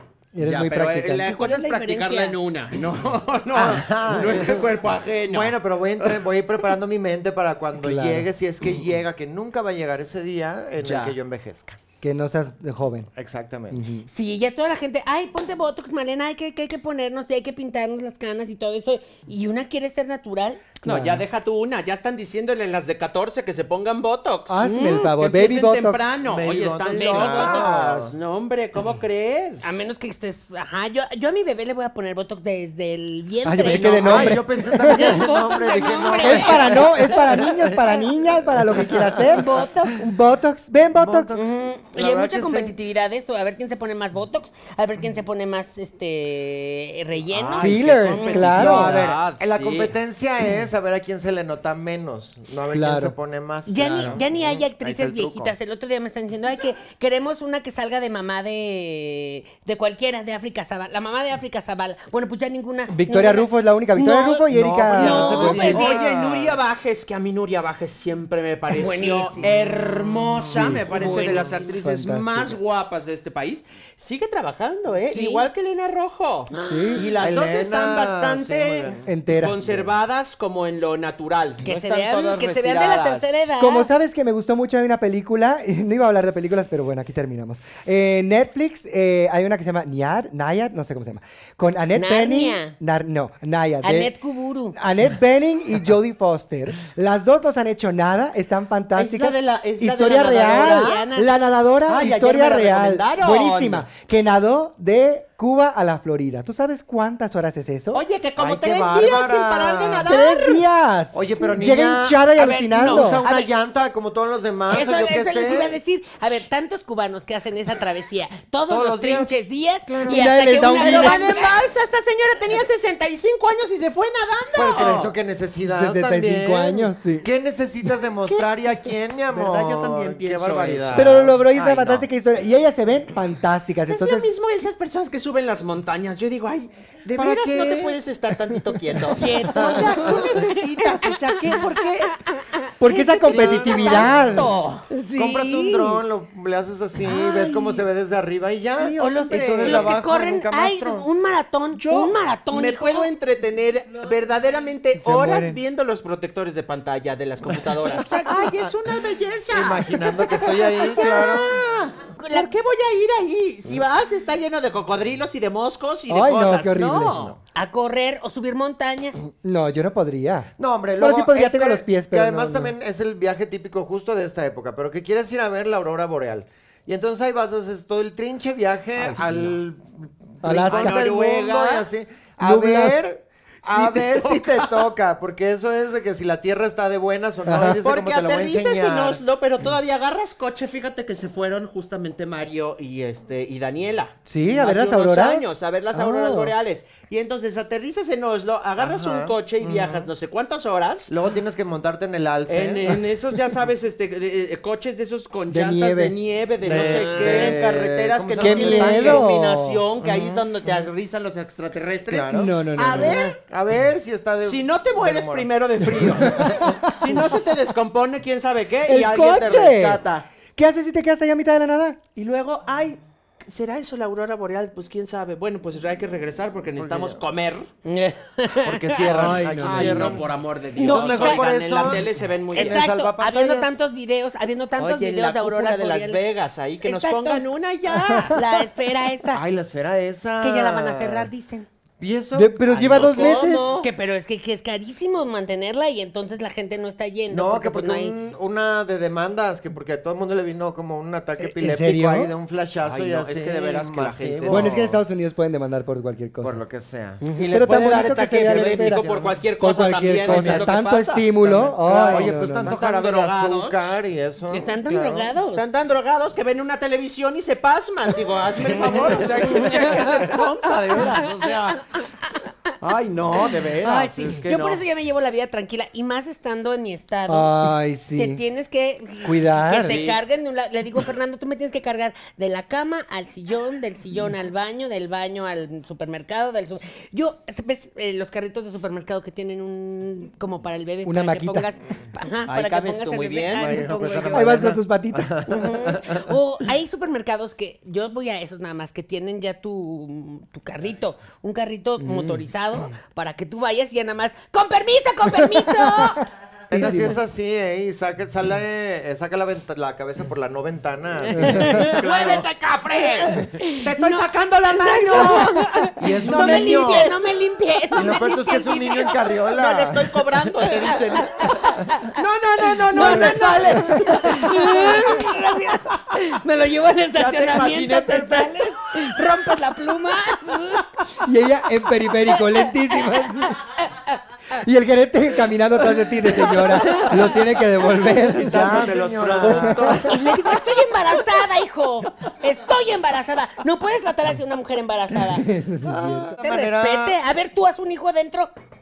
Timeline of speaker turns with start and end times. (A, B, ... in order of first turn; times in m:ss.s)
0:00.3-0:01.3 A
0:00.4-0:06.2 B
0:01.2-0:02.4 C
0:03.5-0:04.7 D
0:05.3-0:11.8 D
0:07.8-0:08.3 A
0:10.8-0:11.2 B
0:12.0-0:13.1 A
0:13.2-0:13.8 D
0:13.7-0:14.1 A
0:14.1-0:20.6 C
0:20.8-0:29.9 B
0:20.8-0:21.2 A
0:24.5-0:26.1 A
0:24.6-0:25.1 C
0:26.2-0:28.1 D
0:26.9-0:27.7 C
0:29.6-0:37.5 C
0:33.4-0:35.2 A
0:33.7-0:37.9 D
0:36.2-0:41.3 A
0:38.7-0:39.6 D
0:39.2-0:40.0 C
0:41.0-0:42.7 D
0:41.3-0:48.6 C
0:47.3-0:49.9 B
0:47.6-0:49.0 A
0:48.5-0:55.5 D
0:52.7-0:53.1 A
0:53.6-1:06.0 C
0:53.8-0:54.2 B
1:02.9-1:05.9 A
1:04.5-1:06.6 D
1:04.9-1:23.5 B
1:08.7-1:09.5 C
1:10.5-1:10.8 A
1:10.9-1:11.5 D
1:11.0-1:11.4 C
1:11.8-1:12.6 A
1:15.1-1:15.5 C
1:16.5-1:17.0 C
1:16.6-1:17.1 A
1:17.1-1:19.9 D
1:19.0-1:19.7 A
1:21.6-1:23.9 C
1:23.6-1:34.1 A
1:31.9-1:32.7 C
1:33.8-1:34.8 C
1:34.7-1:48.0 A
1:38.9-1:41.0 B
1:40.5-1:41.3 C
1:41.9-1:43.8 B
1:47.9-1:50.6 B
1:48.4-1:50.1 D
1:50.0-1:53.2 A
1:51.1-1:55.8 D
1:52.4-1:53.5 C
1:54.7-2:01.6 C
1:58.7-1:59.3 D
1:59.8-2:00.3 D
2:00.0-2:01.2 A
2:00.7-2:05.1 B
2:04.5-2:12.0 D
2:04.8-2:05.1 A
2:05.6-2:07.3 A
2:08.2-2:08.5 B
2:09.3-2:11.4 B
2:10.9-2:14.3 A
2:13.9-2:22.1 B
2:17.1-2:18.0 D
2:19.1-2:21.6 C
2:19.5-2:20.2 D
2:22.1-2:24.1 C
2:22.8-2:24.5 A
2:22.9-2:24.8 B
2:23.2-2:24.5 D
2:24.9-2:26.0 C
2:25.1-2:31.1 D
2:27.1-2:27.8 C
2:28.8-2:29.9 B
2:29.0-2:33.1 C
2:31.7-2:47.3 B
2:35.0-2:35.6 A
2:38.2-2:38.5 D
2:39.5-2:41.6 D
2:42.1-2:42.5 C
2:46.1-2:47.2 A
2:47.0-2:47.4 D
2:47.5-2:49.2 C
2:49.4-2:52.7 A
2:50.6-3:09.2 D
2:59.0-2:59.6 A
3:00.4-3:01.0 A
3:00.4-3:01.9 B
3:02.4-3:03.0 A
3:03.6-3:04.9 B
3:07.4-3:07.8 A
3:07.6-3:21.1 B
3:14.3-3:16.5 A
3:18.8-3:20.1 D
3:21.1-3:23.0 D
3:22.5-3:33.3 B
3:25.5-3:26.1 A
3:26.6-3:29.2 D
3:26.8-3:27.6 C
3:28.4-3:29.8 A
3:30.0-3:30.9 D
3:32.1-3:36.8 D
3:32.3-3:33.2 A
3:32.9-3:33.4 C
3:34.4-3:40.2 B
3:36.2-3:37.2 A
3:38.8-3:40.0 A
3:40.6-3:42.0 A
3:42.2-3:47.7 B
3:46.8-3:47.2 D
3:47.8-3:49.0 C
3:48.6-3:50.3 D
3:49.1-3:50.2 A
3:49.1-3:52.8 B
3:50.8-3:51.9 C
3:50.8-3:53.8 D
3:52.5-3:56.2 C
3:54.8-3:58.4 B
3:56.8-3:57.4 C
3:58.1-3:58.4 A
3:58.3-3:59.4 C
3:59.3-4:01.3 D
4:00.4-4:01.7 C
4:02.0-4:03.5 D
4:02.3-4:03.7 A
4:02.7-4:03.9 B
4:03.7-4:08.1 C
4:07.3-4:15.0 D
4:11.4-4:12.3 A
4:12.8-4:14.9 B
4:14.5-4:16.6 A
4:16.4-4:19.4 D
4:17.2-4:17.5 C
4:17.2-4:24.0 B
4:17.5-4:19.1 A
4:19.6-4:22.7 A
4:20.0-4:20.7 D
4:21.6-4:25.3 D
4:24.5-4:25.6 C
4:25.5-4:31.8 B
4:28.6-4:30.0 D
4:28.8-4:32.4 C
4:32.8-4:34.8 B
4:33.8-4:54.7 C
4:37.3-4:38.4 A
4:39.2-4:40.0 A
4:39.8-4:40.2 B
4:51.0-4:51.7 A
4:52.5-4:54.1 B
4:53.5-4:56.2 D
4:54.3-4:55.4 A
4:55.5-5:06.2 C
5:02.0-5:02.4 A
5:05.6-5:06.1 A
5:06.7-5:12.4 D
5:06.7-5:07.2 A
5:11.4-5:19.3 C
5:11.4-5:11.7 A
5:11.7-5:17.3 B
5:16.0-5:17.2 D
5:17.9-5:20.2 D
5:19.4-5:25.2 B
5:20.6-5:22.2 C
5:22.8-5:30.9 C
5:23.7-5:24.0 A
5:27.1-5:28.7 B
5:31.2-5:33.6 A
5:32.3-5:34.2 C
5:34.5-5:40.2 A
5:36.4-5:37.4 C
5:38.2-5:40.2 B
5:38.4-5:40.0 D
5:40.0-5:45.5 C
5:45.4-5:46.3 A
5:45.8-5:47.2 D
5:46.4-5:48.5 C